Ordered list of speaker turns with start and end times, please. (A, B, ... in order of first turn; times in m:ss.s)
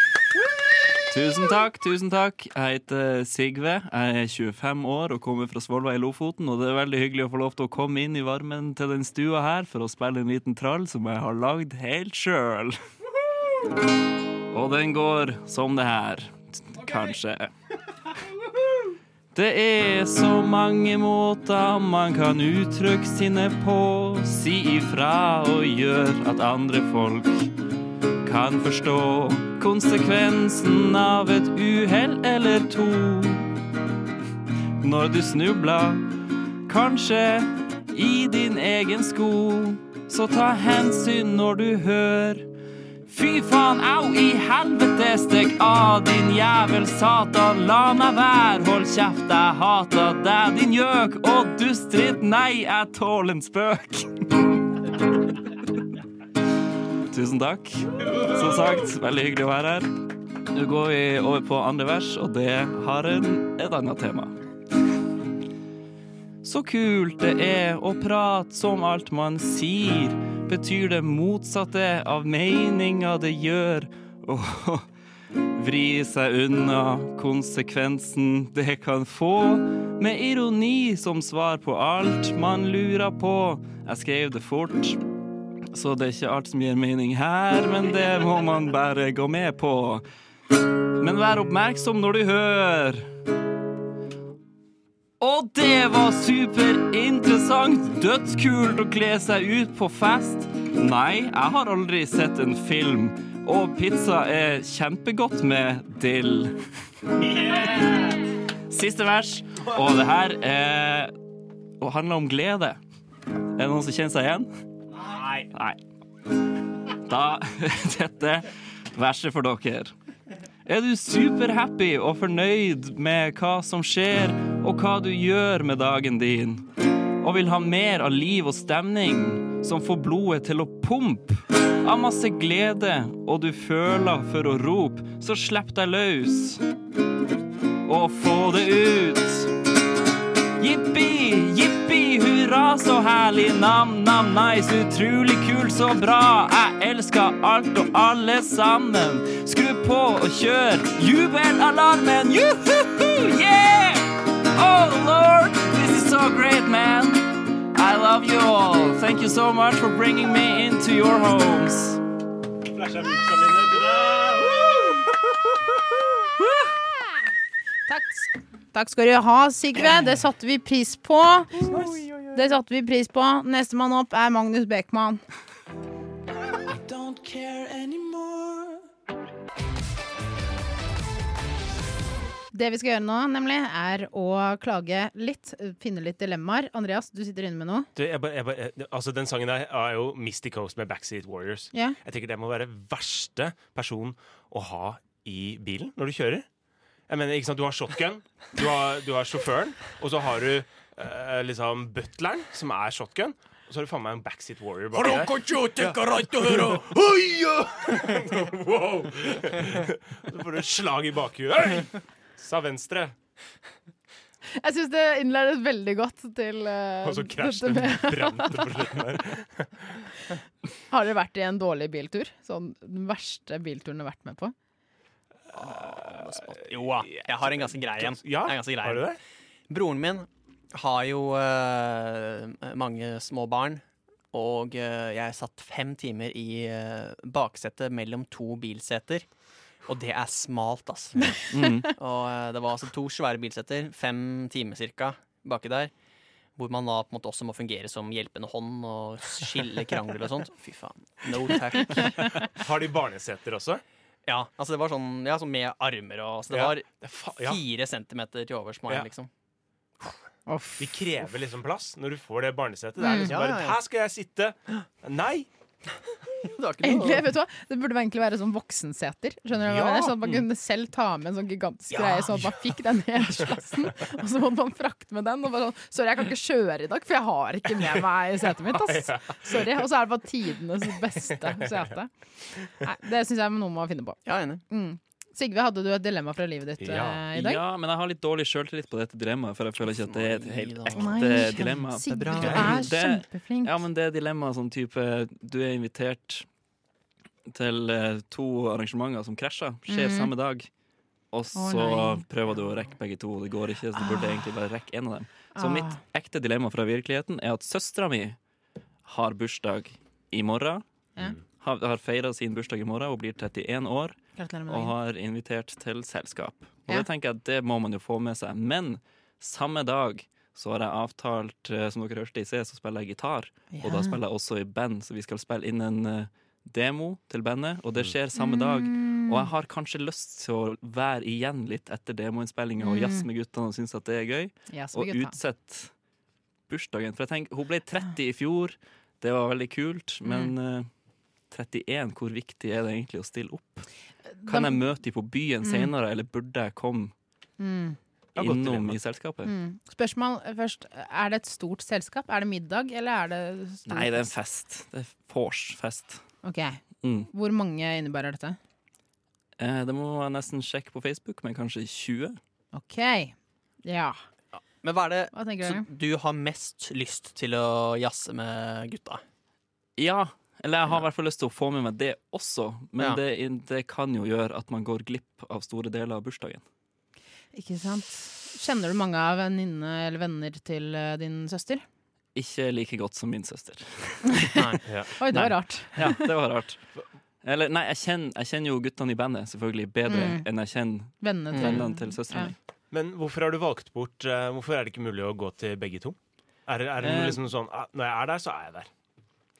0:01.1-0:12.8 A
0:14.5-0:17.5 A
0:19.3-0:27.5 A
0:28.2-0:33.5 A
0:34.8-0:36.1 A
0:36.7-0:42.5 A
0:43.1-0:54.5 A
0:57.1-0:59.9 A
1:00.5-1:04.3 A
1:06.4-1:14.9 A
1:15.5-1:25.0 A
1:25.7-1:30.0 A
1:31.0-1:33.0 A
1:35.2-1:46.6 A
1:47.2-1:47.9 B
1:48.7-1:51.1 A
1:51.8-1:52.8 A
1:53.6-1:54.5 A
1:55.0-1:55.5 B
1:55.5-1:55.8 A
1:57.0-1:59.9 A
2:00.6-2:06.6 A
2:07.2-2:16.6 A
2:17.8-2:19.5 A
2:20.6-2:42.0 A
2:42.6-2:45.5 B
2:47.9-2:51.6 C
2:51.6-2:52.4 B
2:52.3-2:55.2 C
2:56.7-2:58.8 B
3:02.5-3:07.9 C
3:07.9-3:16.5 B
3:17.1-3:33.1 B
3:24.9-3:27.0 D
3:34.6-3:38.8 C
3:37.0-3:40.0 B
3:40.9-3:44.5 C
3:45.5-3:49.2 D
3:45.5-3:49.2 B
3:49.7-3:59.3 D
3:59.8-4:05.9 D
4:01.5-4:01.9 A
4:06.6-4:12.4 D
4:12.4-4:13.8 B
4:14.2-4:19.3 D
4:16.5-4:17.6 B
4:20.5-4:21.0 C
4:20.8-4:25.5 B
4:23.0-4:23.3 C
4:23.2-4:23.8 D
4:26.4-4:27.3 D
4:26.8-4:42.1 C
4:29.7-4:30.1 D
4:31.9-4:32.5 D
4:38.7-4:39.5 B
4:42.7-4:47.6 C
4:44.2-4:44.6 D
4:46.8-4:47.2 B
4:47.3-4:56.4 A
4:49.8-4:52.9 D
4:50.9-4:53.8 C
4:52.4-4:52.7 B
4:57.5-5:00.7 A
4:59.9-5:00.3 C
5:01.3-5:08.4 A
5:01.5-5:02.2 C
5:04.0-5:04.4 C
5:05.6-5:06.0 C
5:09.0-5:10.8 A
5:11.5-5:14.2 A
5:14.4-5:14.9 C
5:14.7-5:35.9 A
5:23.7-5:24.2 C
5:28.4-5:29.5 C
5:32.8-5:33.2 C
5:34.7-5:35.4 C
5:36.7-5:40.9 A
5:40.2-5:40.5 C
5:41.5-5:43.9 A
5:44.4-5:44.8 C
5:44.4-5:47.1 A
5:45.6-5:45.9 C
5:47.6-5:48.0 C
5:48.4-5:49.0 B
5:48.4-5:49.5 A
5:49.4-5:54.3 C
5:53.9-5:56.2 A
5:56.4-5:58.6 C
5:57.0-5:57.3 A
5:59.6-6:02.4 A
6:02.7-6:04.2 C
6:04.5-6:09.2 D
6:05.3-6:05.8 C
6:10.0-6:16.6 A
6:17.5-6:21.8 C
6:22.3-6:24.5 A
6:24.4-6:26.3 C
6:24.8-6:25.1 B
6:25.3-6:26.8 A
6:27.4-6:32.5 A
6:30.1-6:30.4 C
6:31.2-6:32.5 C
6:31.5-6:31.8 D
6:32.9-6:38.9 B
6:37.0-6:37.4 A